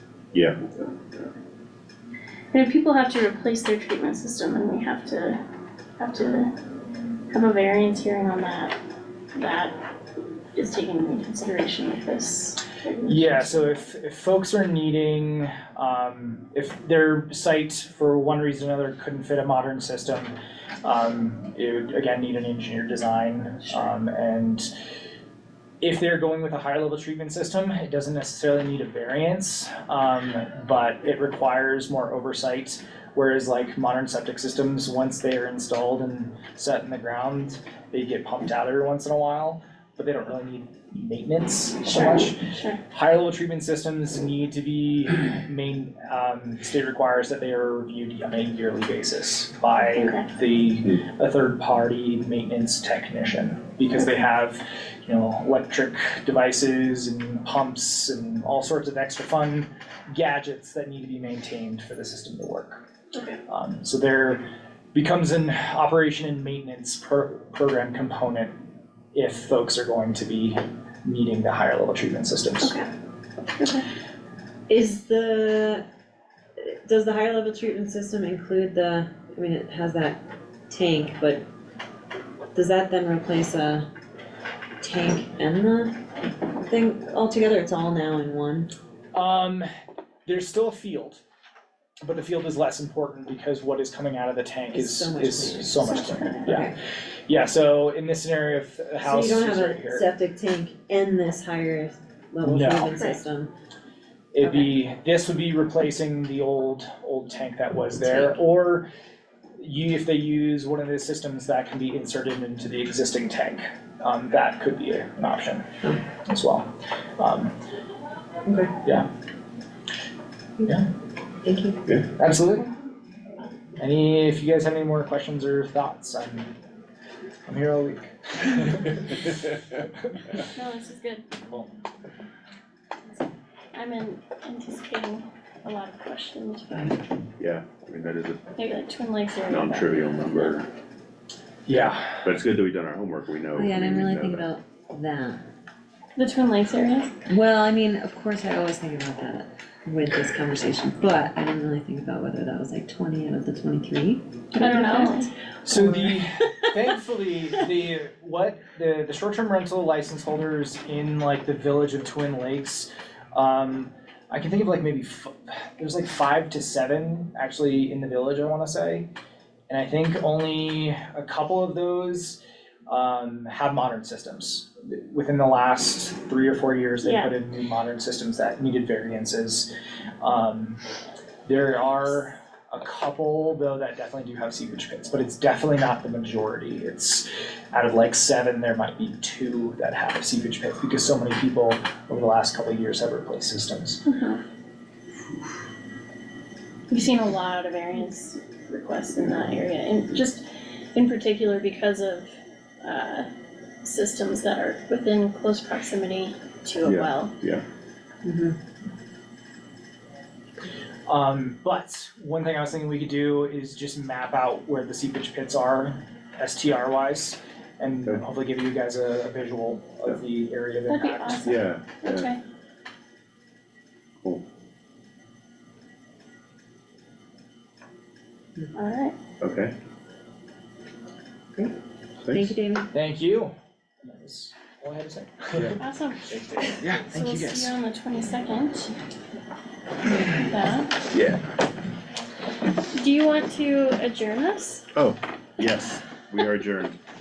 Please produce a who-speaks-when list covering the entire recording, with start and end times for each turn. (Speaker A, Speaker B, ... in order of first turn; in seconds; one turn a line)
Speaker A: 0.3-1.3
Speaker B: 2.5-5.4
Speaker B: 6.0-6.5
Speaker B: 7.3-8.8
Speaker B: 9.3-9.8
Speaker B: 10.6-13.5
Speaker C: 13.1-20.3
Speaker C: 20.8-24.7
Speaker C: 25.8-62.8
Speaker B: 41.8-42.8
Speaker B: 49.9-50.3
Speaker C: 63.5-68.5
Speaker C: 69.1-72.8
Speaker B: 72.6-72.9
Speaker B: 73.6-73.9
Speaker D: 74.7-75.8
Speaker D: 76.6-81.4
Speaker D: 82.5-83.9
Speaker D: 84.8-85.9
Speaker D: 86.7-88.7
Speaker C: 89.1-89.7
Speaker C: 90.3-91.2
Speaker C: 92.0-96.7
Speaker D: 94.7-96.7
Speaker B: 95.9-96.6
Speaker C: 97.3-100.0
Speaker D: 99.0-103.5
Speaker C: 102.4-103.0
Speaker B: 102.9-103.2
Speaker C: 104.3-108.8
Speaker D: 104.4-104.8
Speaker D: 108.0-108.4
Speaker C: 109.6-115.7
Speaker C: 116.2-116.7
Speaker C: 117.2-117.5
Speaker D: 118.5-118.7
Speaker D: 121.4-121.8
Speaker C: 122.2-122.7
Speaker C: 123.8-126.5
Speaker C: 127.5-129.4
Speaker C: 130.0-130.4
Speaker B: 130.5-131.2
Speaker B: 133.7-137.0
Speaker D: 136.7-137.0
Speaker A: 137.4-138.4
Speaker B: 138.6-140.6
Speaker A: 139.5-140.7
Speaker C: 141.7-142.2
Speaker A: 142.2-144.5
Speaker D: 143.5-145.4
Speaker B: 146.2-147.1
Speaker D: 147.3-156.1
Speaker B: 154.5-155.3
Speaker C: 155.6-169.1
Speaker C: 169.7-179.7
Speaker B: 177.0-177.3
Speaker C: 180.2-180.8
Speaker C: 181.4-194.0
Speaker B: 194.1-194.4
Speaker B: 196.9-202.3
Speaker B: 202.8-203.3
Speaker B: 203.8-207.3
Speaker A: 206.8-207.6
Speaker D: 208.2-208.6
Speaker C: 211.1-221.6
Speaker B: 220.9-222.4
Speaker A: 221.4-222.3
Speaker B: 228.7-229.2
Speaker A: 229.4-229.7
Speaker A: 232.2-232.6
Speaker D: 232.3-232.9
Speaker C: 232.9-233.5
Speaker C: 234.0-236.8
Speaker B: 235.8-238.9
Speaker B: 240.4-241.0
Speaker B: 242.9-244.8
Speaker A: 244.9-247.0